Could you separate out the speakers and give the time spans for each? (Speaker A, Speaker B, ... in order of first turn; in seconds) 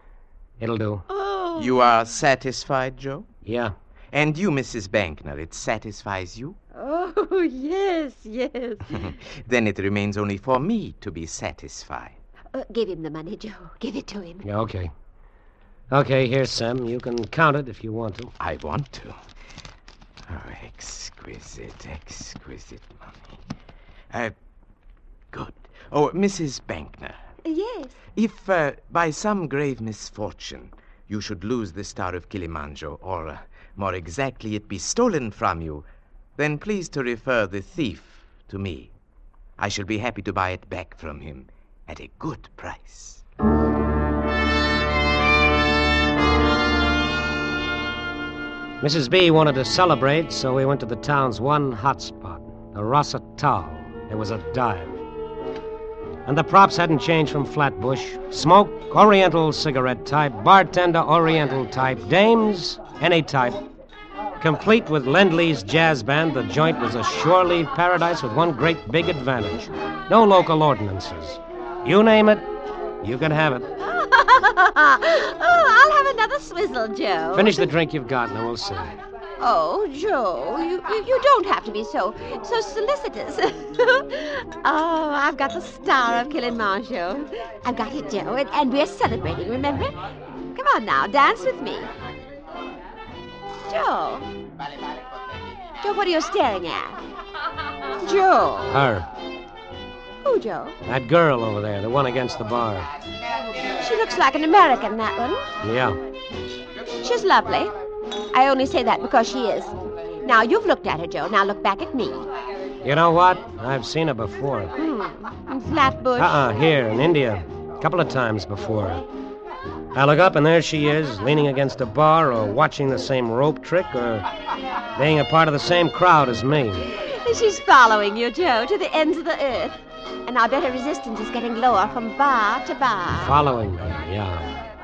Speaker A: 0.6-1.0, 3.4-3.7, 14.4-14.9, 15.9-18.3, 48.8-55.0, 56.2-63.6, 64.4-72.5, 73.0-73.7, 77.3-78.9, 98.7-99.1, 100.8-102.9, 105.6-106.0, 112.8-114.7, 116.2-119.0, 119.9-124.3, 124.9-126.9, 133.2-134.6
Speaker B: 1.1-1.9, 6.7-9.1, 12.5-14.4, 27.4-27.9, 73.8-77.7, 79.4-89.9, 90.5-91.9, 93.7-94.3, 95.8-97.0, 98.0-98.7, 100.2-100.8, 103.8-105.5, 107.0-107.7, 108.3-112.2, 114.8-116.5, 126.9-133.4
Speaker C: 1.6-3.3, 4.1-6.6, 9.0-12.2, 18.4-19.2, 20.3-23.3, 25.3-27.2, 28.1-35.8, 36.4-38.9, 39.6-43.2